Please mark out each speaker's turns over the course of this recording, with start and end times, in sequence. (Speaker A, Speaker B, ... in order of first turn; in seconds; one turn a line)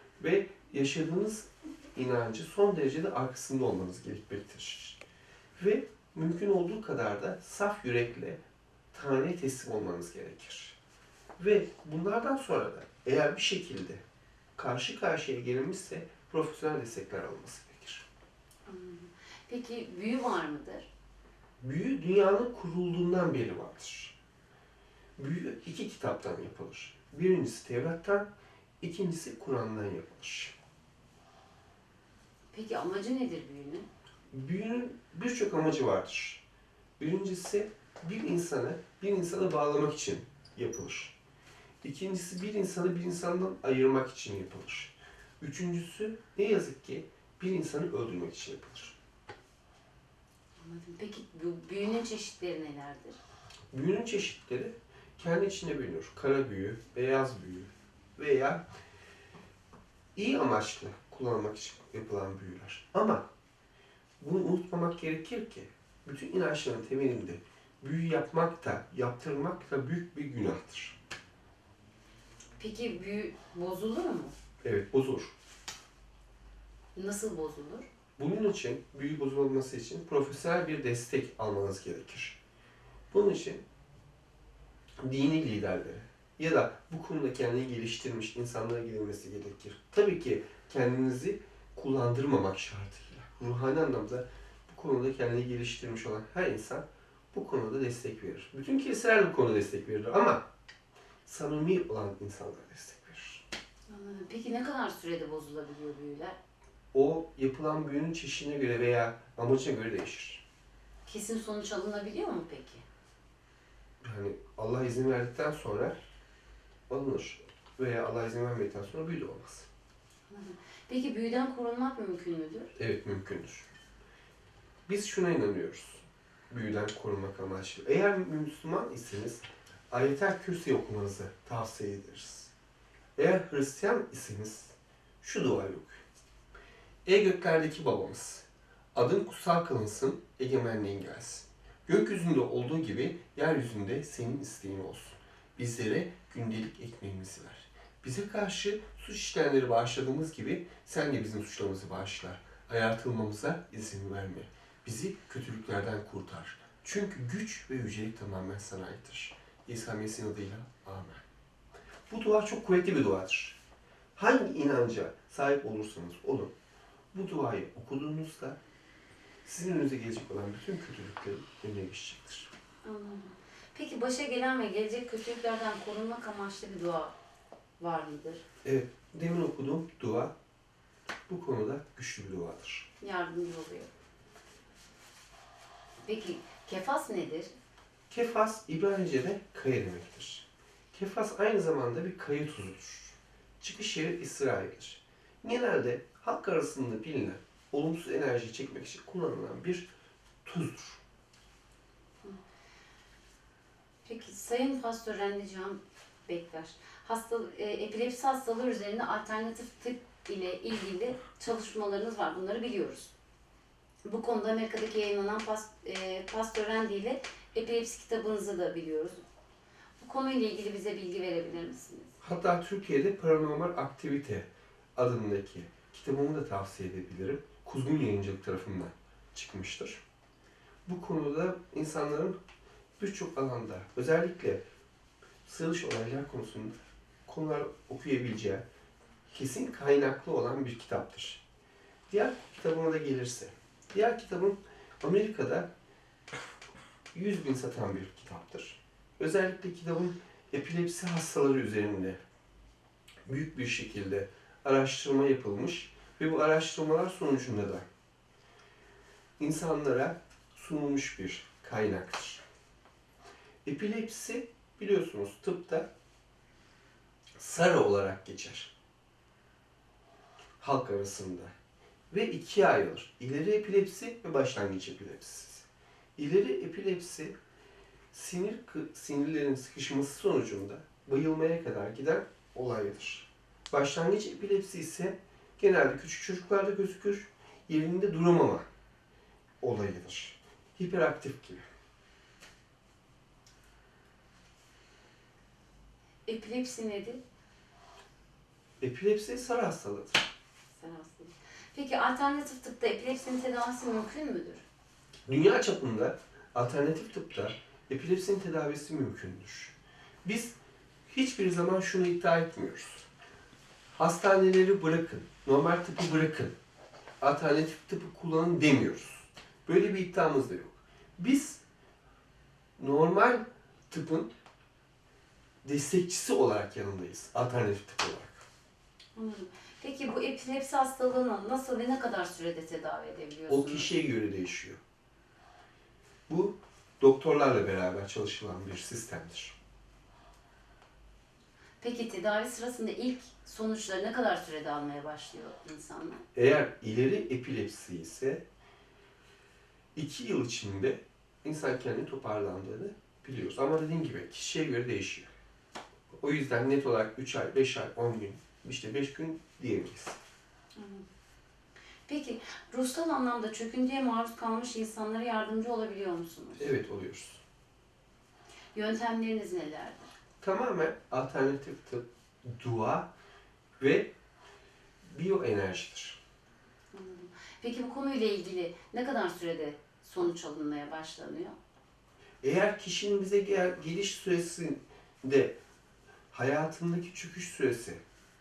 Speaker A: 0.2-5.0
Speaker A: 5.5-8.4
Speaker A: 8.9-10.8
Speaker A: 11.4-14.0
Speaker A: 14.6-18.0
Speaker B: 18.6-20.9
Speaker A: 21.6-24.1
Speaker A: 25.2-28.3
Speaker A: 28.8-30.5
Speaker B: 32.5-33.9
Speaker A: 34.3-36.4
Speaker A: 37.0-41.1
Speaker A: 41.8-48.9
Speaker B: 50.6-53.2
Speaker A: 53.7-58.6
Speaker A: 60.1-63.2
Speaker A: 64.2-71.0
Speaker B: 72.6-74.3
Speaker A: 74.6-75.3
Speaker B: 76.9-77.9
Speaker A: 78.2-82.4
Speaker A: 83.1-83.6
Speaker A: 85.0-100.4
Speaker A: 101.2-103.4
Speaker B: 103.9-106.4
Speaker A: 106.9-110.4
Speaker B: 111.0-112.8
Speaker A: 114.0-116.0
Speaker A: 116.9-119.7
Speaker B: 120.3-122.7
Speaker A: 122.8-123.7
Speaker A: 124.9-132.5
Speaker A: 133.2-136.0
Speaker A: 137.0-161.2
Speaker A: 162.1-163.6
Speaker A: 164.1-166.5
Speaker A: 167.1-168.6
Speaker A: 169.4-172.5
Speaker B: 172.8-177.1
Speaker B: 177.8-178.4
Speaker A: 178.6-180.3
Speaker A: 181.3-182.9
Speaker B: 183.0-183.9
Speaker B: 186.0-187.5
Speaker A: 188.1-199.9
Speaker A: 200.4-201.0
Speaker B: 204.0-213.1
Speaker B: 214.0-219.2
Speaker B: 220.0-222.1
Speaker A: 222.2-230.0
Speaker A: 230.8-232.4
Speaker A: 233.0-234.6
Speaker A: 235.4-238.6
Speaker A: 239.3-241.4
Speaker A: 242.1-245.7
Speaker A: 247.1-252.2
Speaker A: 253.2-257.9
Speaker A: 259.4-262.4
Speaker A: 263.6-265.9
Speaker A: 267.4-268.7
Speaker A: 270.6-271.5
Speaker A: 272.1-275.6
Speaker A: 276.2-277.3
Speaker A: 278.1-288.6
Speaker A: 289.6-291.6
Speaker B: 296.2-297.2
Speaker A: 298.8-300.3
Speaker B: 300.7-304.6
Speaker A: 305.3-310.6
Speaker A: 311.1-313.1
Speaker A: 313.9-316.5
Speaker A: 317.2-321.6
Speaker A: 322.8-324.3
Speaker A: 325.6-328.4
Speaker B: 329.1-333.9
Speaker A: 333.5-334.8
Speaker A: 336.3-339.6
Speaker B: 341.8-346.2
Speaker A: 346.3-348.4
Speaker A: 349.9-355.3
Speaker A: 356.2-360.2
Speaker B: 360.7-361.0
Speaker B: 362.1-366.7
Speaker A: 366.6-367.4
Speaker B: 368.7-370.1
Speaker A: 370.4-373.1
Speaker A: 373.8-374.1
Speaker A: 375.0-376.2
Speaker B: 376.9-381.6
Speaker A: 382.4-385.6
Speaker A: 386.3-388.0